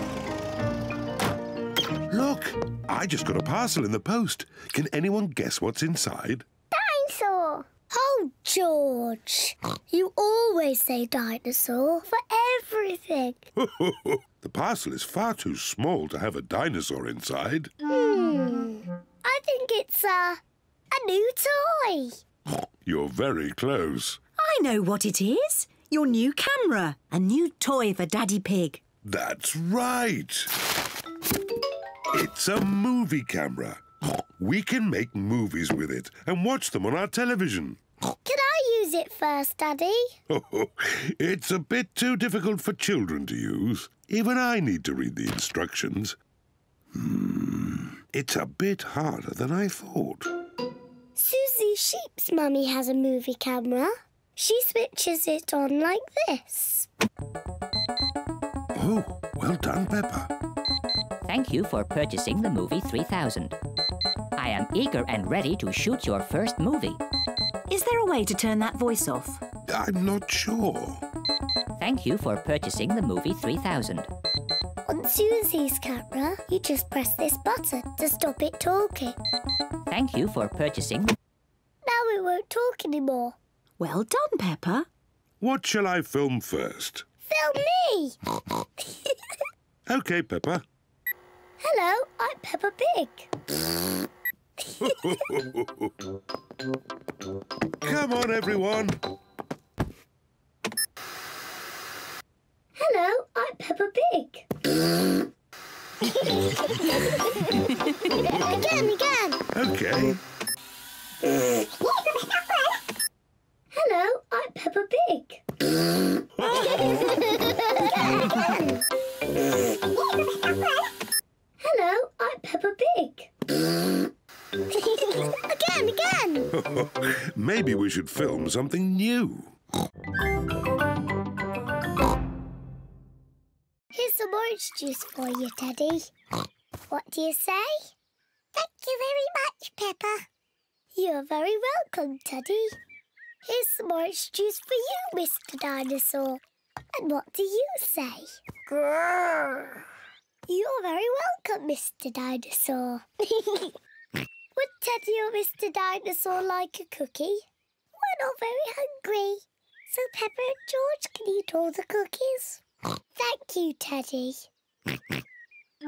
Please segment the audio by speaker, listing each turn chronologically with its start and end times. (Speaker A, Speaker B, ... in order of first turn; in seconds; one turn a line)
Speaker A: 2.1-6.5
Speaker B: 6.7-13.5
Speaker A: 13.6-17.7
Speaker B: 17.9-22.2
Speaker A: 22.9-24.2
Speaker C: 24.4-28.8
Speaker A: 29.0-30.5
Speaker A: 32.1-33.8
Speaker A: 34.4-37.8
Speaker B: 38.2-40.1
Speaker A: 40.3-46.2
Speaker A: 46.9-50.3
Speaker B: 51.2-56.9
Speaker A: 58.8-60.3
Speaker D: 61.2-63.6
Speaker D: 64.4-67.0
Speaker C: 67.7-69.4
Speaker A: 69.7-71.0
Speaker D: 71.8-74.1
Speaker B: 74.9-79.2
Speaker D: 79.9-81.2
Speaker B: 81.8-83.4
Speaker C: 83.8-84.9
Speaker A: 85.4-87.0
Speaker B: 87.3-88.2
Speaker A: 89.9-90.6
Speaker B: 91.6-93.3
Speaker A: 94.8-95.9
Speaker A: 97.8-99.0
Speaker B: 102.8-104.5
Speaker B: 108.1-109.4
Speaker A: 109.5-110.2
Speaker B: 113.7-115.4
Speaker A: 116.4-116.8
Speaker B: 117.4-118.8
Speaker B: 121.6-123.3
Speaker B: 124.7-126.5
Speaker A: 126.5-129.5
Speaker B: 133.9-136.1
Speaker B: 136.9-137.9
Speaker B: 138.6-140.3
Speaker B: 140.9-142.8
Speaker B: 143.4-146.4
Speaker B: 146.9-149.8
Speaker B: 150.5-153.7
Speaker B: 154.6-162.6
Speaker B: 163.2-164.5